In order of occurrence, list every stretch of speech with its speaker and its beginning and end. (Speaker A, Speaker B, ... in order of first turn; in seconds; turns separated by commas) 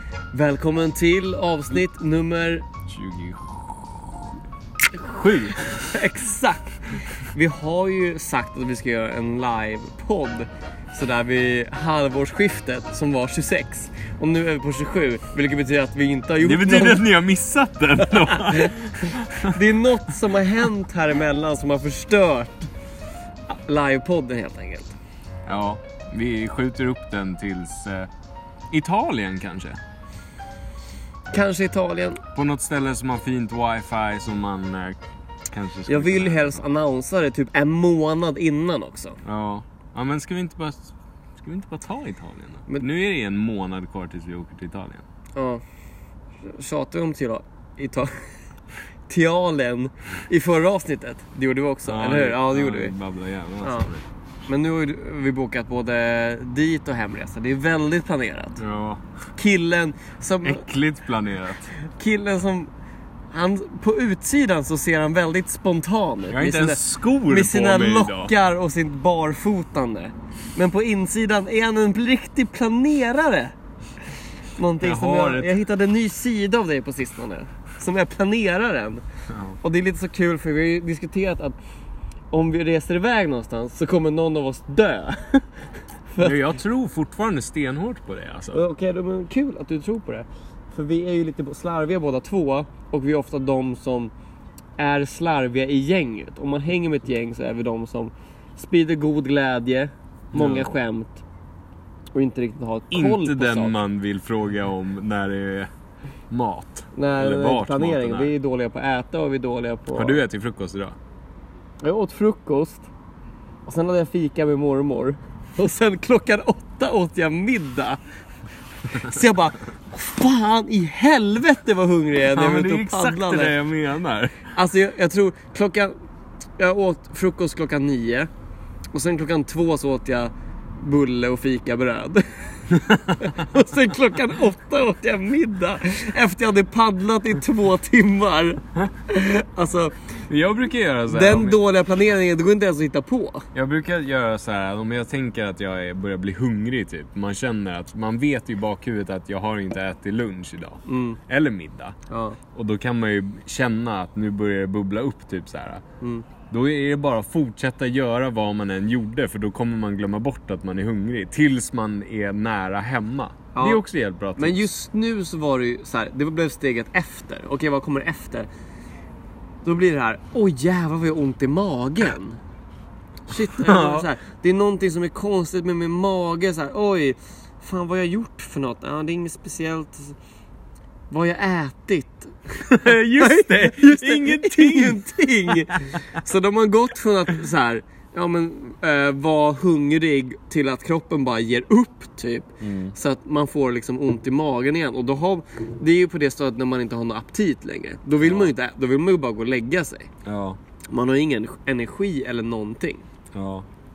Speaker A: 0.3-2.6, Speaker B: 2.9-4.4, Speaker B: 5.0-5.9, Speaker A: 5.8-6.8, Speaker A: 7.3-17.0, Speaker B: 16.4-19.6, Speaker A: 18.3-18.7, Speaker A: 19.4-22.7, Speaker A: 23.5-25.0, Speaker B: 25.4-28.1, Speaker B: 28.7-29.8, Speaker A: 31.3-32.2, Speaker B: 32.3-36.6, Speaker A: 35.9-39.2, Speaker B: 39.2-45.0, Speaker A: 45.4-45.6, Speaker A: 46.4-48.3, Speaker A: 49.1-52.9, Speaker B: 51.9-54.1, Speaker A: 53.6-53.9, Speaker A: 54.5-58.6, Speaker B: 58.6-59.0, Speaker A: 59.4-60.6, Speaker B: 60.4-61.7, Speaker A: 61.8-62.7, Speaker A: 63.3-73.5, Speaker B: 66.3-68.3, Speaker A: 74.6-79.0, Speaker B: 74.8-75.6, Speaker B: 79.3-79.6, Speaker A: 79.6-81.6, Speaker A: 82.3-86.4, Speaker B: 86.2-88.6, Speaker A: 88.5-94.1, Speaker A: 94.8-101.2, Speaker B: 100.3-100.7, Speaker A: 102.2-103.8, Speaker B: 102.9-105.7, Speaker B: 106.3-108.3, Speaker A: 107.0-110.2, Speaker B: 109.9-111.0, Speaker A: 111.8-112.9, Speaker A: 113.7-118.0, Speaker A: 118.9-123.5, Speaker B: 122.3-124.5, Speaker A: 124.5-126.0, Speaker A: 126.6-128.3, Speaker A: 128.9-132.7, Speaker B: 132.8-133.3, Speaker A: 133.2-139.9, Speaker B: 140.2-141.6, Speaker A: 141.1-143.5, Speaker B: 143.5-152.0, Speaker A: 150.9-151.2, Speaker A: 152.1-152.4, Speaker B: 152.5-155.8, Speaker A: 156.0-156.3, Speaker B: 156.5-164.7, Speaker A: 163.5-163.8, Speaker A: 164.4-168.5, Speaker A: 169.6-172.4, Speaker A: 173.3-180.2, Speaker B: 173.6-174.1, Speaker A: 181.1-200.1, Speaker B: 182.7-186.0, Speaker B: 192.6-192.9, Speaker B: 198.2-198.5, Speaker B: 200.2-200.6, Speaker A: 200.9-203.0, Speaker B: 203.3-203.7